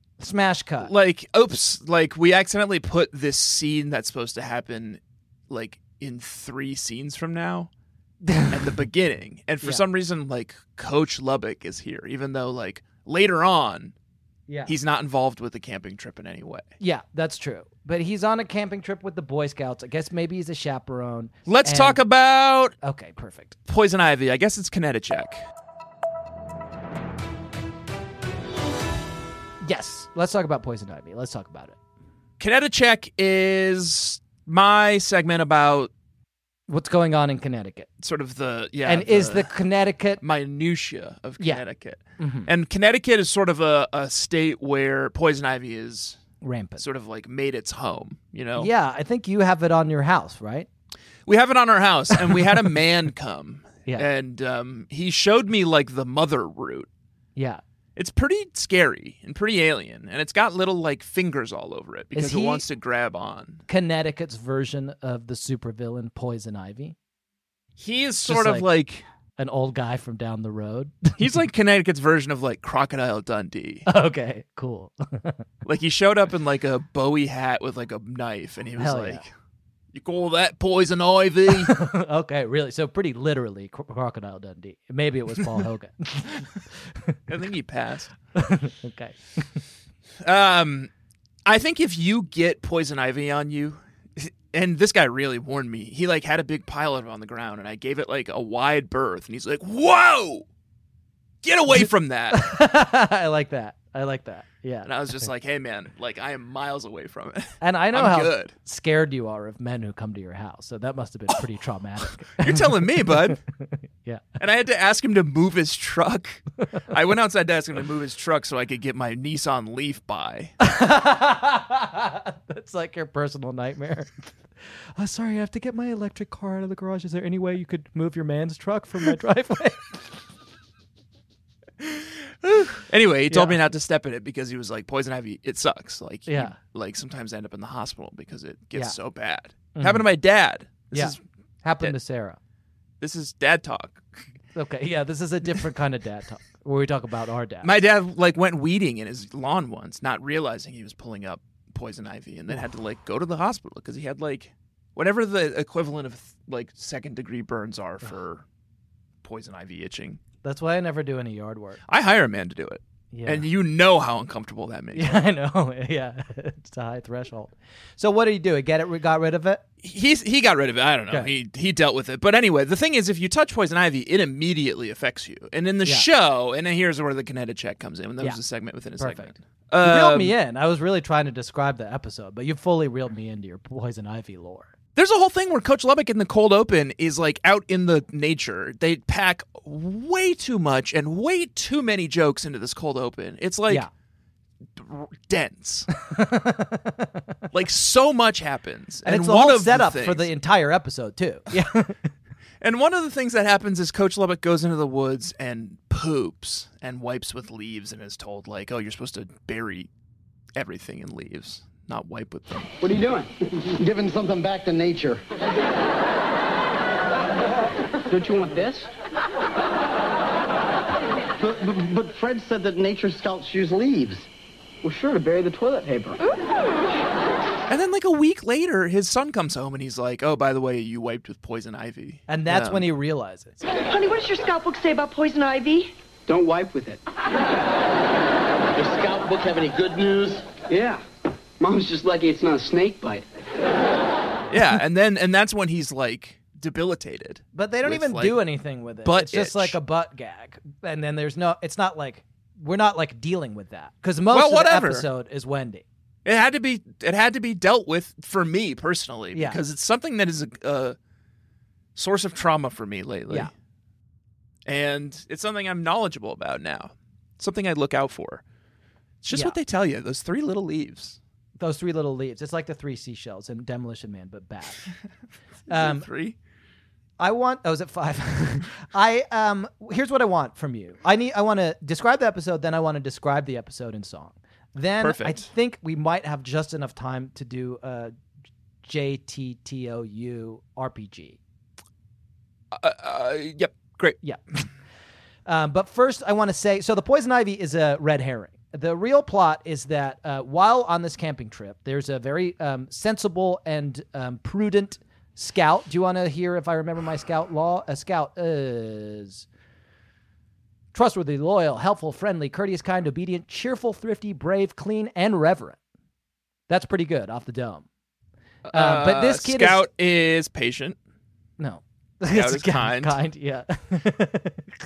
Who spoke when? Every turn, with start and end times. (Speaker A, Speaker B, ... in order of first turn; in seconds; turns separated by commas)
Speaker A: 0.2-0.9, Speaker B: 0.8-7.7, Speaker A: 8.2-8.7, Speaker B: 8.5-13.9, Speaker A: 14.5-14.7, Speaker B: 14.7-16.7, Speaker A: 16.8-22.0, Speaker B: 21.4-22.7, Speaker A: 22.8-23.6, Speaker B: 23.7-25.4, Speaker A: 29.6-31.8, Speaker B: 32.4-35.9, Speaker A: 36.7-37.9, Speaker B: 38.0-39.5, Speaker A: 38.8-40.2, Speaker B: 40.2-46.2, Speaker A: 41.4-41.6, Speaker A: 42.2-42.5, Speaker A: 46.4-46.8, Speaker B: 46.8-48.7, Speaker A: 48.5-50.7, Speaker B: 51.2-56.9, Speaker A: 57.4-57.6, Speaker B: 58.0-63.6, Speaker A: 62.1-62.6, Speaker A: 63.7-67.0, Speaker B: 67.8-69.0, Speaker A: 68.2-68.7, Speaker A: 69.4-71.3, Speaker B: 71.2-73.8, Speaker A: 73.8-75.4, Speaker B: 75.6-79.3, Speaker A: 78.8-79.2, Speaker B: 79.9-81.8, Speaker A: 81.5-87.2, Speaker B: 87.3-88.1, Speaker A: 88.3-89.4, Speaker B: 90.2-90.9, Speaker B: 91.5-100.5, Speaker B: 101.4-102.5, Speaker A: 101.7-105.3, Speaker B: 104.8-108.5, Speaker A: 107.6-113.4, Speaker B: 112.4-113.4, Speaker A: 114.0-114.4, Speaker B: 114.4-120.5, Speaker A: 120.6-124.3, Speaker A: 125.0-130.0, Speaker B: 131.8-141.2, Speaker A: 133.3-133.6, Speaker A: 136.3-136.6, Speaker A: 139.7-140.1, Speaker A: 140.9-142.4, Speaker B: 143.0-144.0, Speaker A: 144.5-147.7, Speaker B: 147.6-158.4, Speaker B: 159.2-160.2, Speaker A: 160.4-161.8, Speaker B: 161.9-165.2, Speaker A: 163.1-163.5, Speaker A: 164.9-169.6, Speaker B: 169.8-180.3, Speaker A: 179.0-184.7, Speaker B: 184.9-193.9, Speaker B: 194.8-195.9, Speaker A: 196.0-197.2, Speaker B: 197.5-200.3, Speaker A: 199.0-202.1, Speaker B: 202.6-209.9, Speaker B: 210.5-212.7, Speaker C: 212.8-213.3, Speaker D: 213.7-215.2, Speaker C: 218.1-218.9, Speaker D: 221.4-224.3, Speaker C: 224.8-226.2, Speaker B: 227.7-232.9, Speaker A: 232.3-233.6, Speaker E: 233.8-235.9, Speaker C: 236.3-237.0, Speaker D: 238.8-240.4, Speaker C: 240.7-241.0, Speaker C: 241.6-243.2, Speaker B: 244.5-248.4, Speaker A: 247.5-255.8, Speaker B: 249.0-249.8, Speaker B: 254.3-255.1, Speaker B: 256.2-261.0, Speaker A: 259.3-259.6, Speaker B: 261.9-263.5, Speaker B: 264.6-268.4, Speaker B: 269.2-271.2, Speaker A: 269.3-269.6, Speaker A: 271.6-274.8, Speaker B: 275.7-276.4, Speaker A: 275.7-276.1, Speaker A: 277.2-288.1, Speaker B: 285.0-285.5, Speaker A: 288.8-291.4, Speaker B: 292.7-294.2, Speaker A: 295.4-309.4, Speaker A: 310.9-315.8, Speaker A: 316.7-317.9, Speaker B: 318.6-321.0, Speaker A: 318.7-319.9, Speaker A: 321.6-324.6, Speaker B: 322.3-323.2